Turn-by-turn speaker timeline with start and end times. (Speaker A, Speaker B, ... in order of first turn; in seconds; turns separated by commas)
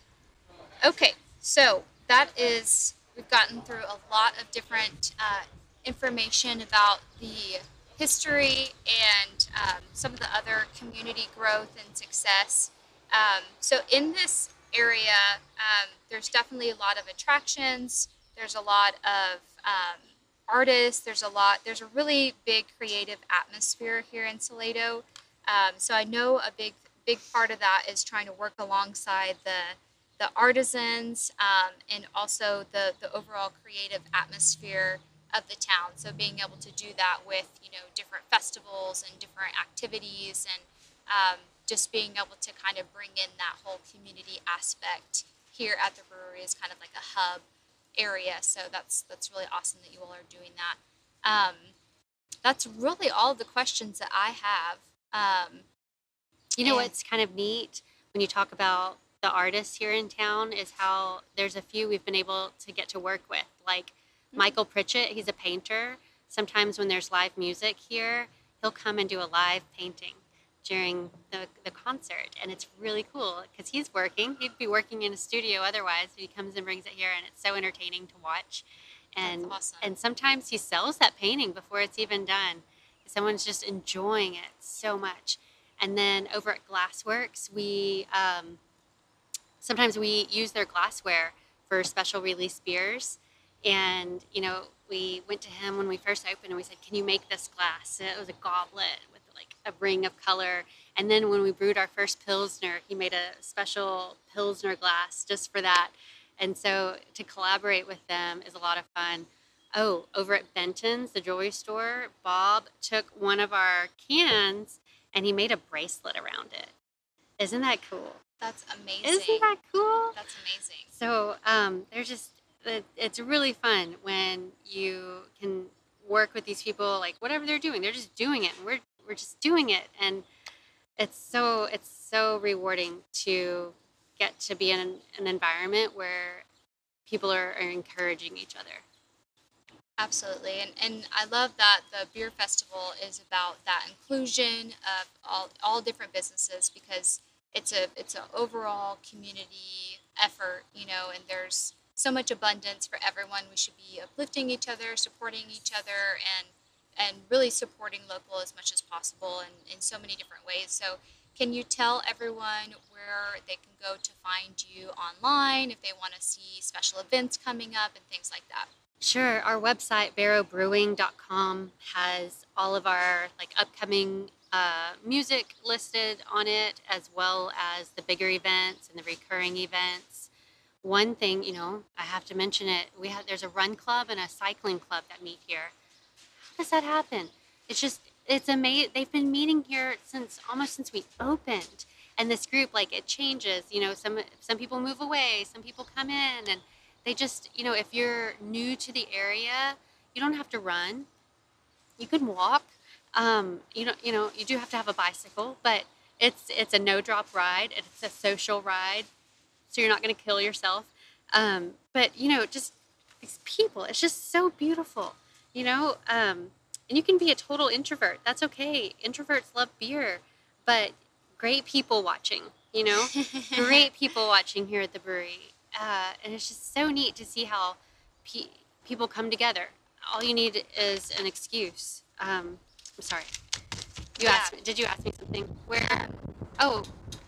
Speaker A: 0.8-47.4, Speaker A: 48.0-51.7, Speaker A: 52.4-55.6, Speaker B: 56.6-88.6, Speaker A: 56.6-56.9, Speaker A: 79.2-79.9, Speaker B: 89.6-116.7, Speaker B: 117.4-118.2, Speaker A: 118.4-119.5, Speaker B: 119.0-120.2, Speaker A: 120.1-120.9, Speaker B: 120.9-130.2, Speaker B: 131.0-136.4, Speaker B: 137.1-138.8, Speaker A: 140.0-168.7, Speaker B: 169.0-180.3, Speaker B: 180.8-185.7, Speaker B: 186.5-201.1, Speaker B: 202.0-209.1, Speaker B: 209.7-233.3, Speaker A: 223.1-223.9, Speaker B: 234.2-236.9, Speaker A: 234.2-234.5, Speaker A: 235.8-236.2